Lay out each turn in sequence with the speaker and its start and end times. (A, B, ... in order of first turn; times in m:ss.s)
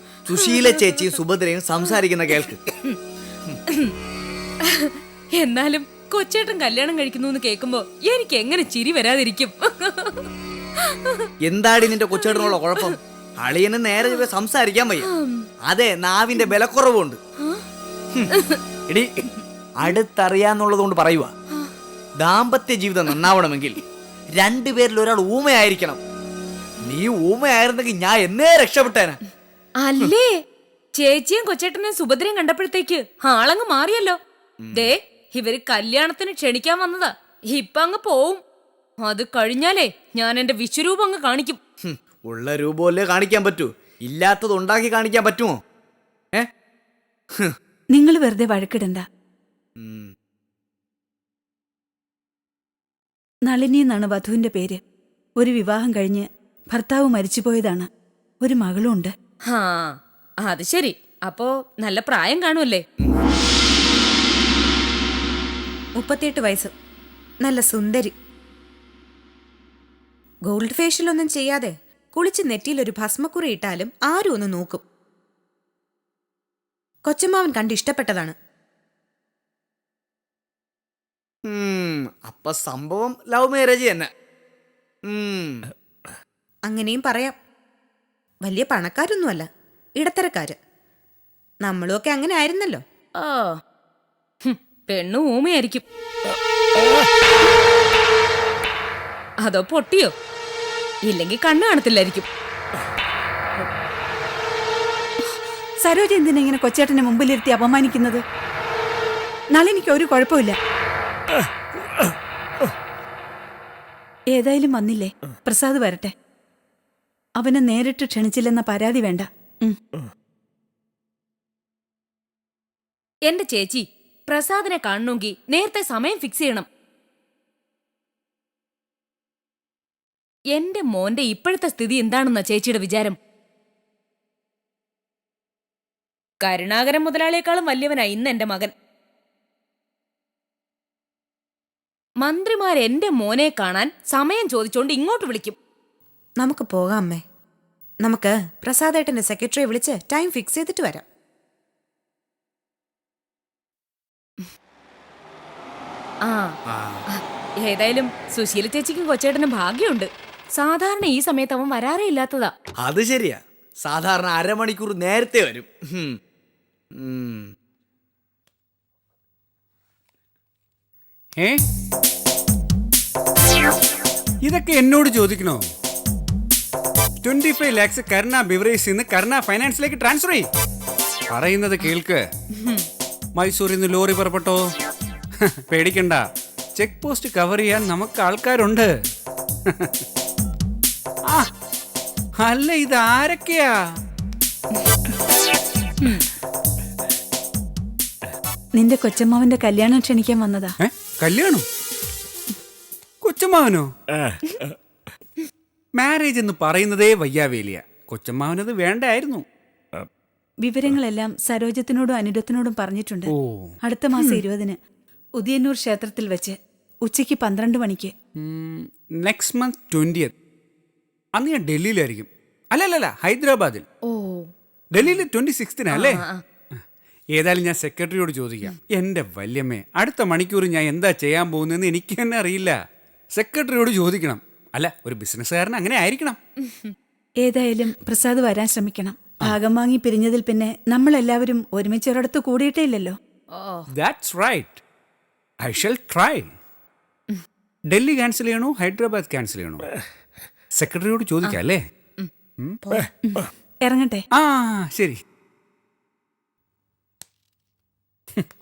0:00.3-0:02.6 A
0:00.4-0:01.1 B
0:04.7-0:10.3 B
0:10.8-0:11.2 B
0:11.4-0:15.1 A
0:12.0-0:13.0 B
0:15.2-0:15.4 B
0:15.7-0:17.2 A
0:19.8-0:21.3 A
0:22.2-0:23.8 A
0:24.4-0:26.0 A
0:26.8-0:29.2 A
0:29.8-0:30.3 B
0:31.0-0:34.2 B
0:34.6-0:34.9 A
0:34.7-0:38.4 B
0:39.0-0:41.6 B
0:41.8-0:45.6 A
0:47.9-0:49.0 C
0:49.8-0:50.1 A
0:53.5-0:54.8 C
0:55.4-0:57.9 C
0:58.4-0:59.1 C
0:59.5-0:59.9 B
1:00.4-1:02.8 B
1:06.0-1:06.7 D
1:07.4-1:08.1 D
1:10.5-1:14.8 D
1:17.1-1:18.4 D
1:21.5-1:24.1 A
1:25.1-1:25.6 A
1:26.7-1:27.4 D
1:28.4-1:29.5 D
1:30.0-1:30.6 D
1:31.6-1:32.8 D
1:33.2-1:33.5 B
1:34.4-1:35.8 B
1:39.4-1:40.1 B
1:41.1-1:42.3 B
1:45.8-1:48.2 C
1:49.5-1:50.6 C
1:54.3-1:56.1 C
1:57.4-1:59.8 C
2:03.3-2:06.7 B
2:10.5-2:13.2 B
2:16.4-2:18.7 B
2:22.2-2:25.6 B
2:26.4-2:27.2 D
2:28.0-2:31.1 D
2:36.3-2:36.5 B
2:36.7-2:37.0 A
2:37.2-2:42.5 B
2:42.8-2:46.1 A
2:47.0-2:47.5 A
2:54.4-2:55.6 E
2:57.2-3:00.5 E
3:01.3-3:02.2 E
3:03.4-3:04.6 E
3:05.7-3:06.2 E
3:06.8-3:08.9 E
3:12.4-3:13.7 E
3:18.8-3:20.7 C
3:20.8-3:21.6 E
3:23.2-3:23.9 E
3:26.0-3:29.4 E
3:30.6-3:34.8 C
3:33.3-3:33.7 E
3:35.4-3:38.1 C
3:38.4-3:40.3 E
3:41.4-3:43.8 E
3:44.1-3:44.4 B
3:44.9-3:46.3 E
3:45.9-3:46.4 B
3:47.3-3:52.8 E
3:53.3-3:56.4 E
3:57.4-4:03.2 C
4:03.5-4:03.8 B
4:03.9-4:04.8 E
4:05.6-4:06.5 E
4:07.9-4:09.8 E
4:10.8-4:11.8 E
4:13.3-4:14.2 C
4:14.3-4:15.2 E